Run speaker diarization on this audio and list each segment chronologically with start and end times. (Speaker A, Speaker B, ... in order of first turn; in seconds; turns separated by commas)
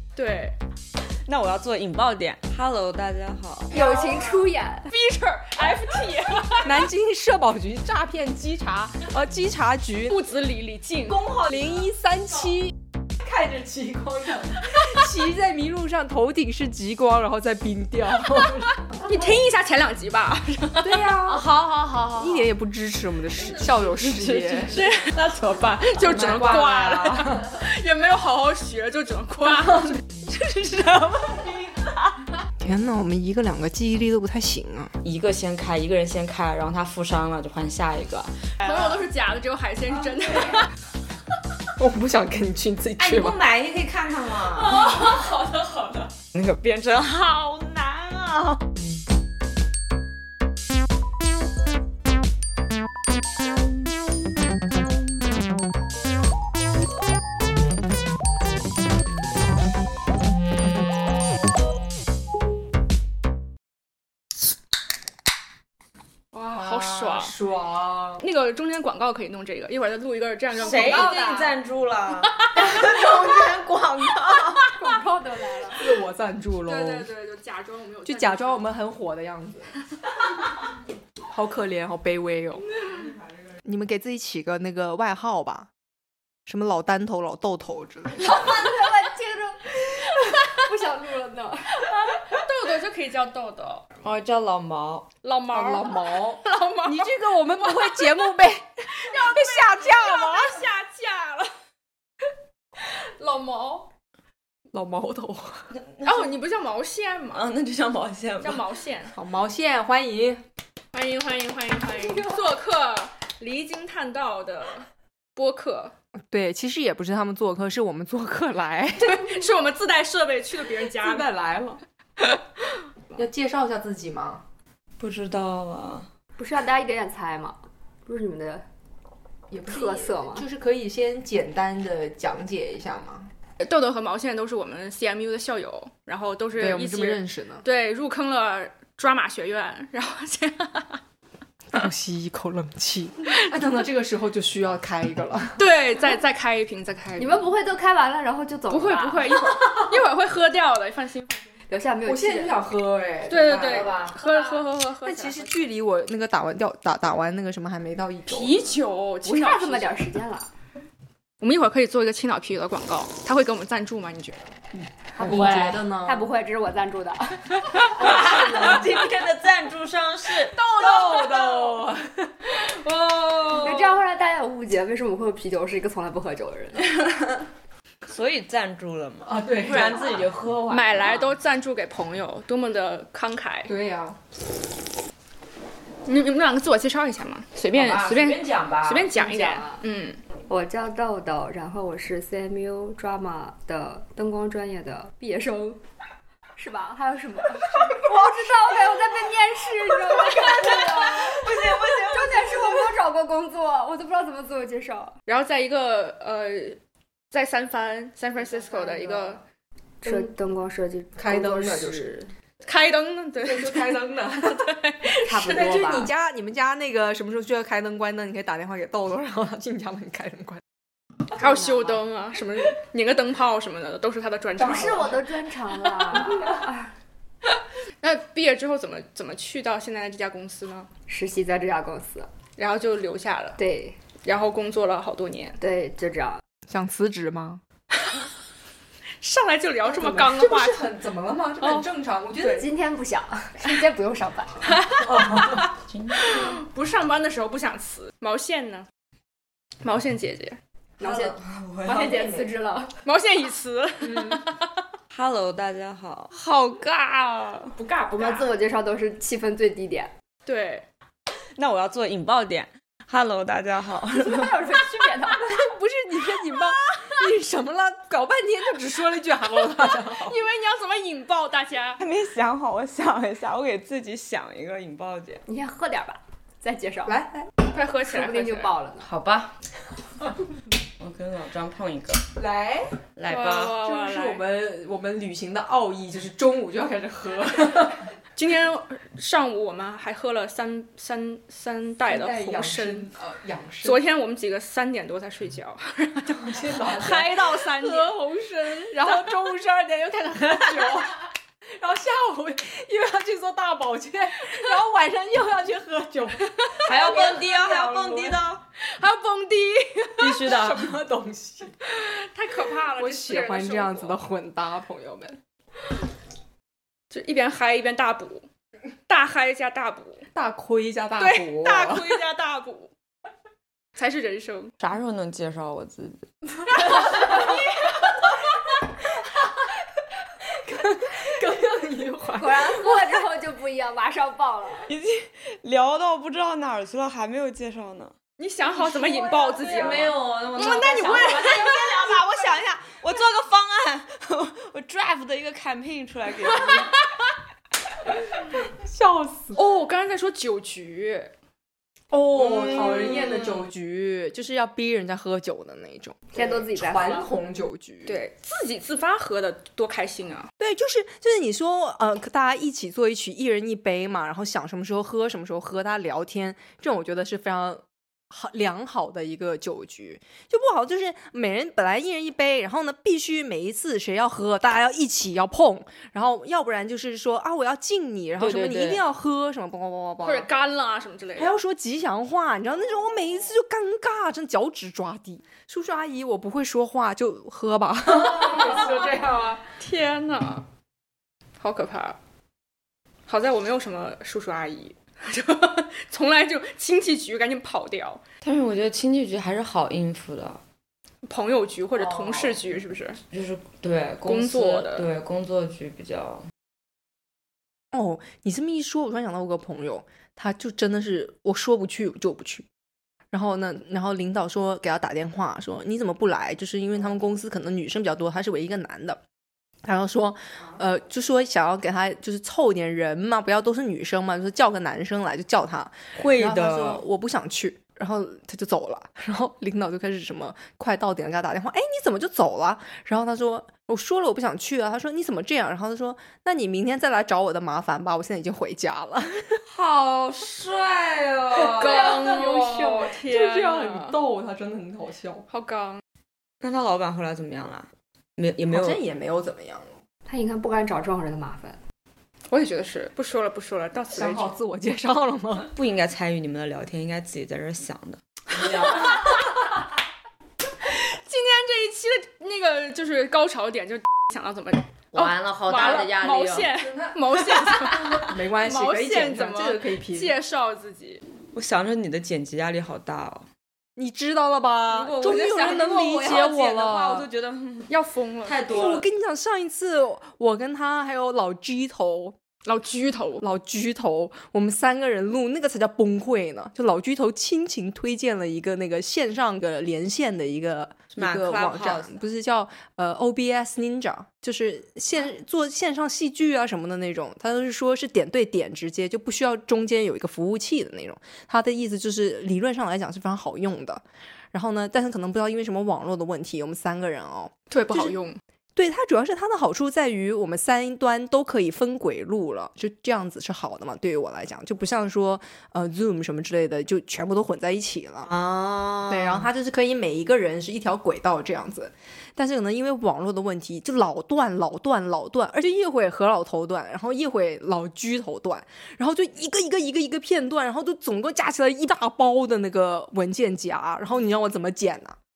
Speaker A: 0.1-0.6, Speaker B: 1.2-3.8, Speaker C: 3.7-4.9, Speaker A: 3.8-4.4, Speaker A: 4.9-6.9, Speaker D: 6.6-10.2, Speaker A: 10.1-11.3, Speaker B: 11.1-11.7, Speaker D: 11.3-18.7, Speaker A: 18.9-21.2, Speaker D: 20.8-21.5, Speaker B: 21.4-22.3, Speaker D: 22.1-24.8, Speaker B: 23.9-24.7, Speaker A: 24.6-31.6, Speaker D: 26.0-27.5, Speaker B: 30.7-32.0, Speaker D: 32.6-34.9, Speaker B: 35.0-38.5, Speaker A: 38.6-40.7, Speaker D: 41.8-43.4, Speaker B: 43.0-45.2, Speaker A: 44.6-46.1, Speaker B: 46.2-48.7, Speaker A: 66.3-67.3, Speaker D: 66.5-68.2, Speaker A: 68.2-71.4, Speaker B: 70.6-74.8, Speaker C: 70.7-71.5, Speaker A: 72.4-73.2, Speaker C: 74.7-75.8, Speaker D: 75.8-77.1, Speaker A: 76.7-78.7, Speaker D: 78.1-79.8, Speaker D: 81.3-82.7, Speaker D: 83.6-85.7, Speaker D: 86.5-88.6, Speaker C: 88.2-91.9, Speaker A: 91.8-93.9, Speaker B: 94.0-95.1, Speaker A: 95.2-98.3, Speaker D: 95.5-100.7, Speaker A: 98.9-101.5, Speaker A: 102.8-103.9, Speaker D: 104.7-105.7, Speaker B: 105.7-106.3, Speaker A: 106.0-107.4, Speaker B: 107.3-108.7, Speaker A: 108.4-109.2, Speaker D: 109.1-110.4, Speaker A: 110.9-115.9, Speaker D: 116.3-119.3, Speaker A: 119.0-121.3, Speaker D: 121.0-121.8, Speaker D: 123.1-124.4, Speaker B: 125.0-126.1, Speaker C: 126.4-128.6, Speaker D: 129.5-133.3, Speaker C: 129.7-130.5, Speaker A: 133.6-141.0, Speaker D: 136.6-137.7, Speaker D: 141.7-145.6, Speaker A: 145.6-147.5, Speaker C: 147.2-149.4, Speaker A: 148.7-151.5, Speaker C: 151.7-152.6, Speaker D: 152.1-154.2, Speaker A: 153.3-155.5, Speaker D: 155.0-158.6, Speaker A: 158.3-160.1, Speaker C: 159.2-160.5, Speaker A: 161.4-164.5, Speaker D: 165.2-166.3, Speaker C: 165.2-167.9, Speaker B: 167.9-171.1, Speaker D: 168.2-168.8, Speaker A: 170.5-171.8, Speaker D: 170.8-172.3, Speaker A: 173.1-173.8, Speaker B: 173.2-173.9, Speaker C: 173.6-176.9, Speaker B: 178.1-181.3, Speaker D: 179.2-180.2, Speaker A: 180.7-183.7, Speaker D: 183.7-184.2, Speaker A: 186.1-190.2, Speaker B: 187.7-189.2, Speaker C: 189.1-189.8, Speaker C: 190.5-195.8, Speaker C: 196.6-205.2, Speaker B: 200.3-202.9, Speaker A: 205.3-206.8, Speaker A: 207.3-209.4, Speaker C: 208.6-209.4, Speaker C: 210.0-212.2, Speaker D: 211.2-212.3, Speaker A: 212.6-215.8, Speaker D: 213.4-214.7, Speaker C: 215.2-216.1, Speaker D: 215.4-220.6, Speaker A: 221.4-225.2, Speaker C: 221.4-222.0, Speaker C: 224.6-226.9, Speaker A: 228.0-230.9, Speaker C: 231.1-232.3, Speaker A: 232.6-233.6, Speaker C: 233.6-234.0, Speaker A: 234.2-235.6, Speaker C: 235.6-236.4, Speaker D: 236.7-237.6, Speaker A: 239.2-241.0, Speaker C: 239.9-240.3, Speaker D: 240.2-242.7, Speaker A: 241.6-241.9, Speaker C: 242.4-244.8, Speaker A: 244.7-245.6, Speaker D: 245.0-245.7, Speaker B: 245.6-246.4, Speaker A: 246.2-248.9, Speaker A: 249.8-250.6, Speaker C: 251.0-253.0, Speaker B: 251.0-252.5, Speaker A: 253.1-254.8, Speaker D: 254.0-254.4, Speaker B: 255.1-257.8, Speaker A: 257.8-258.5, Speaker C: 258.2-260.1, Speaker A: 260.4-260.9, Speaker B: 261.6-264.7, Speaker C: 264.1-265.5, Speaker D: 265.4-270.4, Speaker A: 266.6-267.0, Speaker A: 269.7-272.0, Speaker B: 272.0-275.4, Speaker C: 275.5-277.2, Speaker D: 277.1-277.5, Speaker A: 277.7-278.8, Speaker C: 278.1-279.1, Speaker B: 279.0-279.6, Speaker B: 281.0-282.3, Speaker D: 282.4-283.0, Speaker B: 283.2-283.8, Speaker A: 283.3-284.4, Speaker D: 283.7-288.1, Speaker A: 288.4-293.1, Speaker D: 292.1-294.0, Speaker A: 293.8-299.5, Speaker D: 296.4-298.2, Speaker D: 298.9-301.2, Speaker A: 300.4-301.1, Speaker D: 301.8-308.4, Speaker A: 306.7-307.4, Speaker B: 306.8-308.6, Speaker A: 308.8-310.5, Speaker B: 310.2-310.9, Speaker D: 310.4-311.7, Speaker A: 311.8-314.2, Speaker D: 313.0-315.4, Speaker A: 317.1-318.5, Speaker A: 319.1-320.3, Speaker D: 320.3-322.2, Speaker A: 321.2-322.9, Speaker A: 323.9-324.7, Speaker B: 324.8-327.4, Speaker A: 327.0-327.6, Speaker D: 330.5-333.2, Speaker C: 332.4-334.9, Speaker B: 334.9-338.1, Speaker A: 338.4-342.2, Speaker B: 339.6-347.0, Speaker D: 339.7-340.1, Speaker D: 348.8-349.6, Speaker A: 349.5-351.3, Speaker D: 352.1-358.2, Speaker B: 352.4-353.6, Speaker C: 356.3-357.3, Speaker A: 358.1-360.5, Speaker D: 360.6-380.5, Speaker B: 378.4-379.0, Speaker A: 380.2-381.5, Speaker D: 381.4-389.6, Speaker A: 389.7-390.7, Speaker A: 391.6-392.2, Speaker A: 393.3-398.2, Speaker B: 398.4-400.6, Speaker A: 401.3-403.2, Speaker D: 402.0-402.6, Speaker B: 403.3-406.4, Speaker A: 404.2-405.1, Speaker D: 407.9-412.7, Speaker D: 413.3-419.2, Speaker D: 419.8-439.6, Speaker B: 426.2-427.0, Speaker B: 439.7-442.5, Speaker A: 441.6-444.2, Speaker D: 443.1-445.4, Speaker A: 445.5-446.0, Speaker B: 446.6-449.0, Speaker D: 448.7-450.0, Speaker C: 450.3-451.8, Speaker A: 452.5-454.5, Speaker D: 454.1-455.7, Speaker B: 455.6-459.3, Speaker A: 460.8-471.2, Speaker B: 465.1-466.7, Speaker D: 466.8-470.4, Speaker B: 471.5-473.5, Speaker D: 474.0-477.3, Speaker B: 474.9-477.9, Speaker A: 475.2-476.2, Speaker A: 477.9-478.6, Speaker B: 478.4-479.1, Speaker D: 478.7-482.4, Speaker A: 482.7-483.4, Speaker D: 483.4-508.1, Speaker B: 491.1-492.1, Speaker A: 507.7-508.4, Speaker D: 508.8-518.3, Speaker B: 518.3-519.5, Speaker D: 519.1-535.2